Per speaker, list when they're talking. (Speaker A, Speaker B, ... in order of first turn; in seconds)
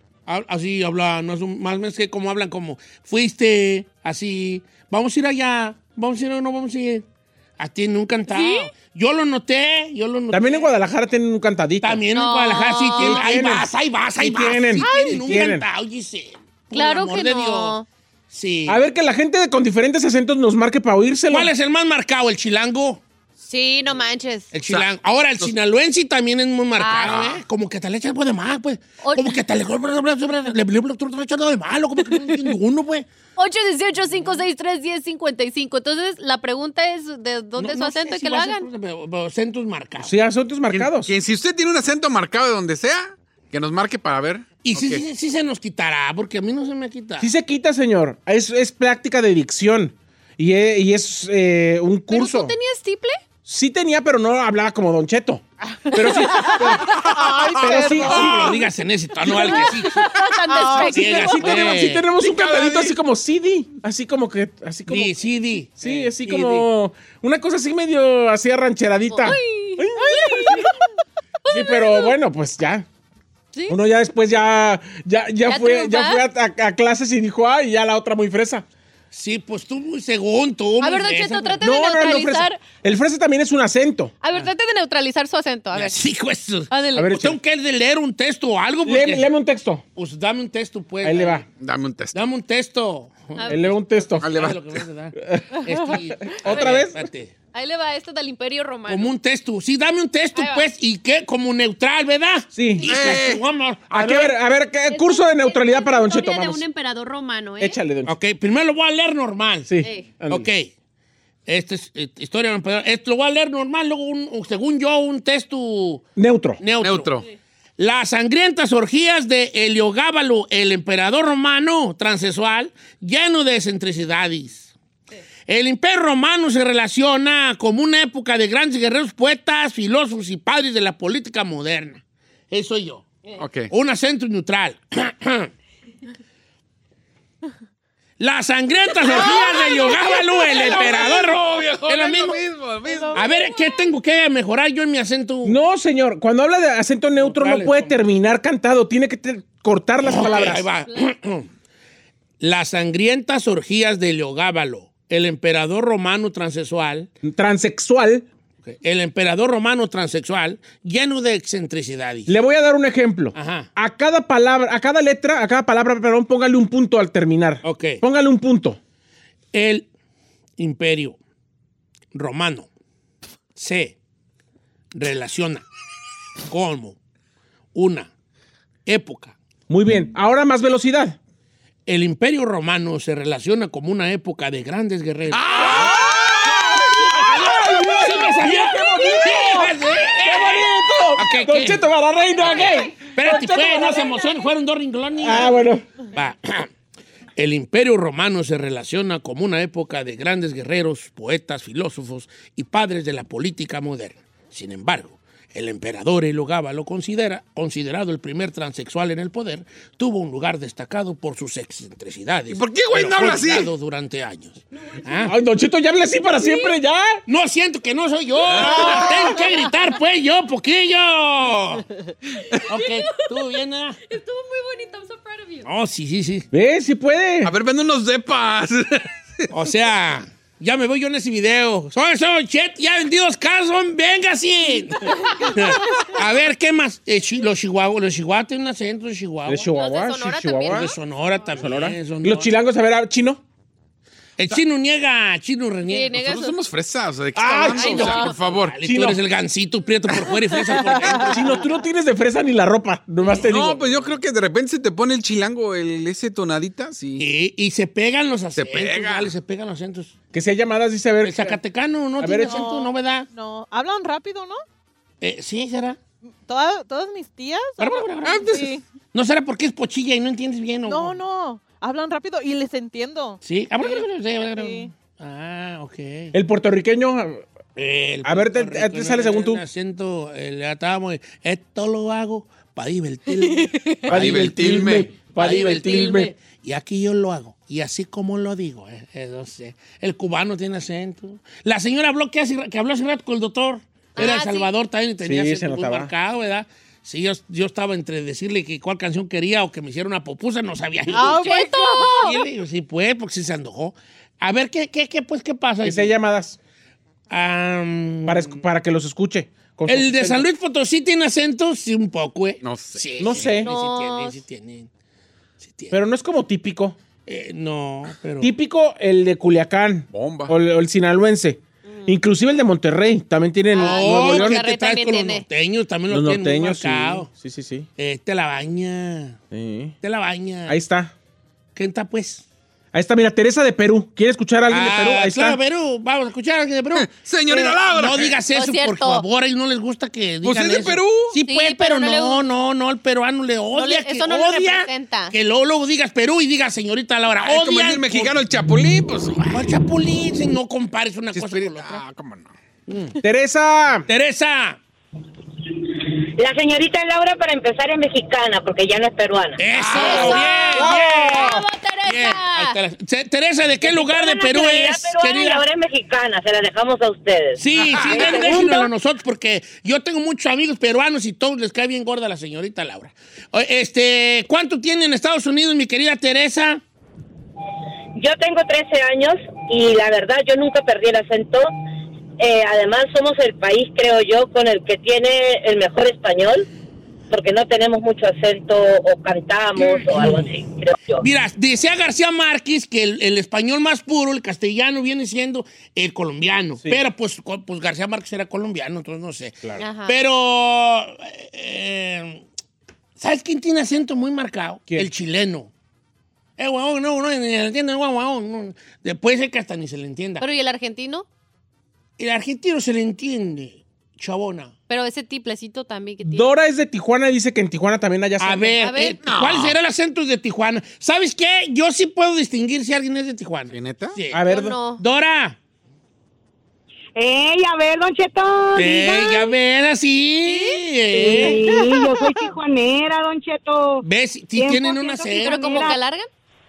Speaker A: 0.3-7.0, 7.6-10.7, 11.8-17.7, 18.3-18.8, 21.3-23.0, 24.5-33.0, 37.6-40.1, 44.6-47.3, 58.0-60.1, 60.9-62.0, 64.9-66.7, 79.1-81.6, 85.7-89.3, 90.0-91.4, 92.1-97.3, 98.9-104.3, 108.0-110.7, 111.5-116.0, 116.6-117.2, 117.8-124.7, 125.5-133.1, 133.7-135.5, 138.2-142.4, 143.1-145.6, 147.2-147.9, 150.0-151.5, 152.4-157.1, 158.7-162.3, 163.3-163.7, 167.6-168.0, 169.5-169.8, 170.6-171.2, 172.1-172.7, 173.5-173.9, 174.9-175.7, 176.5-177.0, 177.7-178.1, 178.8-179.3, 181.9-186.1, 186.9-191.8, 192.4-195.5, 196.1-196.7, 197.3-215.3, 217.2-221.8, 222.7-224.0, 225.6-226.4, 229.5-239.7, 240.7-242.5, 244.4-246.2, 247.7-251.6, 257.2-260.1, 261.2-263.3, 265.2-266.0, 267.8-271.2, 273.4-276.3, 277.8-306.2, 307.3-308.6, 309.9-314.9, 315.6-316.0, 317.2-318.5, 323.7-327.3, 328.0-329.4, 330.0-330.8, 331.8-332.4, 334.7-348.4, 349.4-352.0, 352.9-353.2, 354.1-354.8, 359.6-365.6, 367.6-376.8, 389.8-390.5, 391.2-402.4, 403.2-405.7, 406.6-410.4, 412.2-414.7, 418.4-425.6, 428.7-431.6, 434.0-435.8
Speaker B: 8.3-8.7, 12.1-13.3, 14.8-15.4, 16.7-17.9, 23.4-24.5, 26.8-27.2, 29.0-29.4, 32.1-32.4, 33.4-38.6, 52.1-53.2, 56.3-56.9, 59.2-61.4, 69.1-70.7, 71.4-72.1, 75.5-76.2, 80.8-82.6, 84.2-86.0, 86.7-87.1, 93.4-93.6, 97.5-99.1, 100.3-100.7, 104.9-107.8, 109.8-110.1, 143.2-143.8, 216.4-216.7, 222.7-223.1, 224.1-225.7, 239.8-240.9, 245.9-246.5, 247.8-248.3, 294.1-294.7, 301.1-302.4, 313.6-314.4, 323.7-325.4, 338.5-339.2, 341.4-342.4, 343.7-345.3, 359.9-362.8, 368.6-368.8, 399.8-400.1, 410.4-411.2, 414.9-416.5, 418.8-419.2, 424.5-425.0, 430.5-431.7, 435.3-436.3
Speaker C: 10.3-12.0, 12.9-15.7, 18.7-21.5, 40.0-41.1, 47.2-52.5, 53.4-57.0, 57.6-58.6, 60.8-65.1, 65.8-70.7, 71.5-72.8, 73.7-78.6, 81.6-84.1, 86.9-87.4, 88.8-89.8, 91.0-91.4, 93.5-94.3, 95.2-97.0, 102.5-103.0, 103.9-106.6, 107.6-108.1, 109.7-110.5, 116.2-116.6, 145.4-150.6, 157.2-158.2, 162.3-168.8, 179.7-181.2, 185.5-194.2, 195.2-195.8, 215.2-217.2, 218.8-219.3, 226.5-227.5, 239.4-240.9, 241.5-243.4, 247.3-248.2, 248.8-249.2, 251.1-253.8, 260.3-261.6, 262.2-262.6, 276.3-277.4, 278.2-279.6, 284.1-286.3, 295.2-296.1, 305.8-306.6, 308.3-310.5, 313.2-313.7, 315.9-316.9, 318.4-324.6, 326.1-327.9, 329.5-329.9, 330.7-331.1, 332.9-335.6, 353.2-354.1, 360.7-361.6, 416.2-418.8, 424.3-424.7
Speaker D: 24.6-24.9, 27.0-27.4, 40.7-45.0, 62.2-63.0, 91.6-92.2, 94.2-94.8, 102.8-103.4, 116.8-117.2, 133.3-133.7, 139.1-143.2, 185.3-187.1, 212.5-213.7, 227.4-229.1, 246.1-248.8, 253.4-257.2, 258.6-259.3, 268.3-268.7, 284.1-285.1, 312.6-313.0, 320.1-320.5, 336.9-338.4, 340.4-341.3, 347.4-349.4, 351.3-352.5, 359.7-360.5, 367.8-368.2, 419.2-419.8, 423.7-424.2
Speaker E: 55.9-58.1, 60.4-61.1, 262.5-264.6, 266.4-268.8, 270.9-274.0, 274.5-274.9, 301.1-302.3
Speaker F: 355.7-359.6, 363.8-368.8, 378.2-381.7, 382.4-386.7, 387.3-391.3
Speaker G: 427.1-429.5, 431.1-436.0